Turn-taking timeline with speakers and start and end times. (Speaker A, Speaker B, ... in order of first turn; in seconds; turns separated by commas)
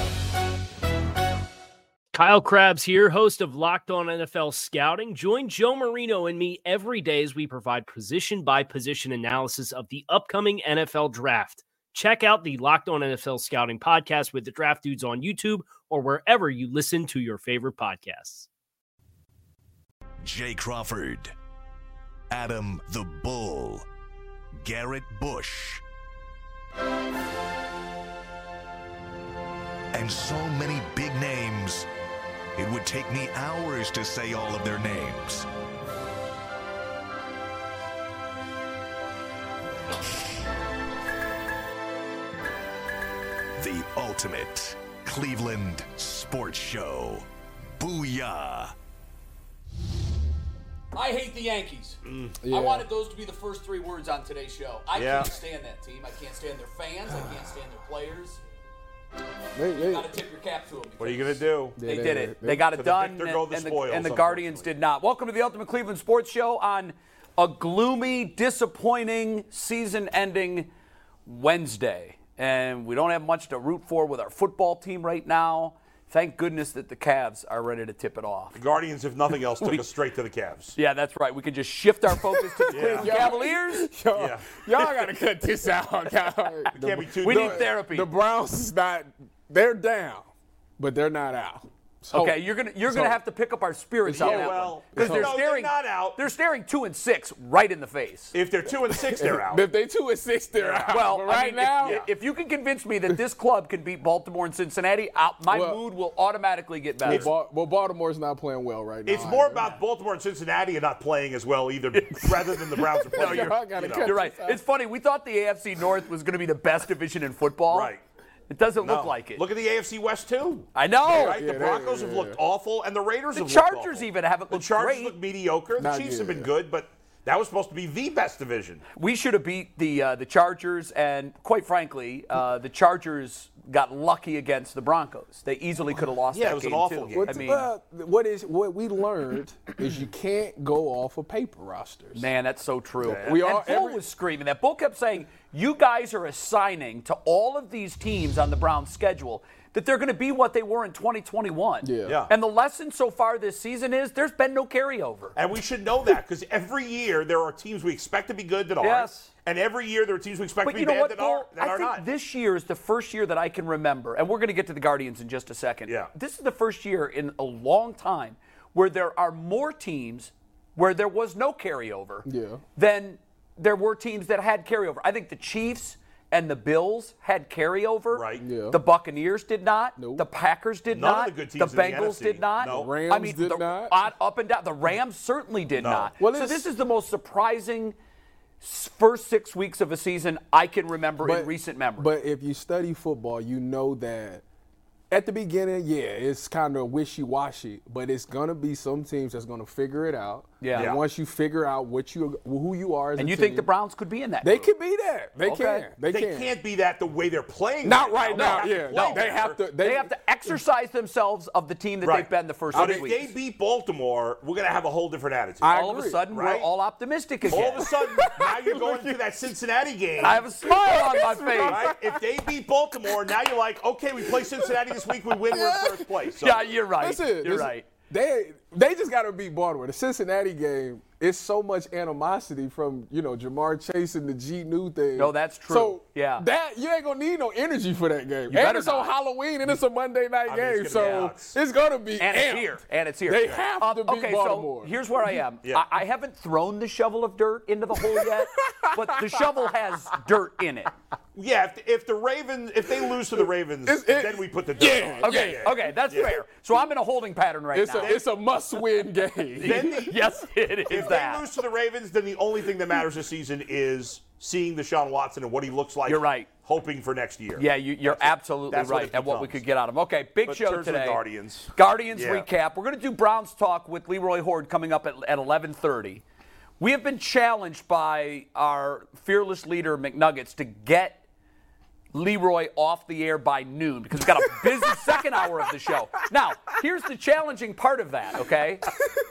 Speaker A: 2.1-18.5, Speaker B: 20.2-21.3, Speaker B: 22.3-23.8, Speaker B: 24.6-25.8, Speaker B: 29.9-31.9, Speaker B: 32.5-35.5, Speaker B: 43.6-47.2, Speaker B: 47.8-48.7, Speaker C: 50.9-58.4, Speaker D: 52.0-52.4, Speaker E: 52.4-52.9, Speaker D: 54.9-55.3, Speaker E: 59.5-60.1, Speaker C: 59.7-70.7, Speaker D: 61.0-61.8, Speaker E: 61.8-62.7, Speaker D: 62.7-64.7, Speaker C: 71.2-78.6, Speaker D: 78.5-80.8, Speaker C: 79.6-79.8, Speaker C: 80.8-83.9, Speaker E: 82.2-90.3, Speaker D: 82.7-83.3, Speaker D: 84.1-84.6, Speaker D: 86.8-87.7, Speaker C: 87.2-88.1, Speaker E: 90.8-93.2, Speaker C: 92.1-98.3, Speaker E: 94.0-95.3, Speaker D: 94.2-96.2, Speaker D: 98.3-99.7, Speaker E: 99.1-102.0, Speaker D: 100.5-101.2, Speaker C: 100.9-107.3, Speaker D: 101.8-102.1, Speaker E: 105.5-105.8, Speaker E: 107.0-109.7, Speaker D: 107.0-107.3, Speaker D: 109.0-114.2, Speaker C: 111.9-117.9, Speaker E: 113.1-114.6, Speaker D: 117.7-118.0, Speaker C: 118.5-119.4, Speaker D: 118.8-128.8, Speaker C: 120.7-121.4, Speaker E: 121.0-122.4, Speaker C: 123.3-125.1, Speaker E: 125.8-126.5, Speaker C: 128.9-137.7, Speaker D: 136.3-137.5, Speaker E: 137.1-142.3, Speaker C: 142.1-155.3, Speaker E: 143.0-144.0, Speaker D: 143.1-143.4, Speaker E: 151.8-152.2, Speaker D: 152.1-152.3, Speaker D: 155.3-162.0, Speaker C: 158.8-159.3, Speaker C: 160.6-187.9, Speaker E: 172.2-172.6, Speaker D: 178.1-178.4, Speaker E: 178.4-178.8, Speaker E: 180.0-180.2, Speaker D: 180.9-182.9, Speaker E: 182.6-184.0, Speaker D: 185.8-186.1, Speaker E: 186.2-186.7, Speaker C: 188.6-192.1, Speaker E: 191.2-194.4, Speaker E: 195.1-203.7, Speaker C: 200.6-200.9, Speaker D: 200.7-201.0, Speaker C: 203.2-204.7, Speaker E: 204.4-206.5, Speaker C: 205.4-205.9, Speaker D: 206.1-209.6, Speaker E: 207.8-210.6, Speaker C: 208.3-213.3, Speaker D: 212.0-215.7, Speaker E: 212.7-213.1, Speaker E: 215.6-216.2, Speaker C: 215.7-217.9, Speaker D: 216.3-216.7, Speaker D: 217.5-220.4, Speaker E: 217.5-219.5, Speaker C: 220.2-221.8, Speaker E: 220.2-222.2, Speaker D: 221.5-226.7, Speaker E: 223.1-223.3, Speaker E: 224.2-226.3, Speaker C: 226.4-227.8, Speaker E: 227.0-245.4, Speaker C: 235.2-236.4, Speaker C: 238.5-239.1, Speaker D: 240.4-241.6, Speaker C: 241.0-241.3, Speaker C: 242.2-250.9, Speaker E: 247.9-249.7, Speaker D: 251.3-256.4, Speaker E: 253.1-255.7, Speaker C: 255.2-258.2, Speaker E: 257.7-260.3, Speaker D: 258.0-258.3, Speaker D: 259.6-260.2, Speaker C: 259.6-261.4, Speaker D: 260.9-269.6, Speaker C: 266.1-266.5, Speaker C: 267.6-271.2, Speaker D: 270.4-272.4, Speaker C: 271.7-276.2, Speaker C: 276.8-281.2, Speaker C: 282.1-288.9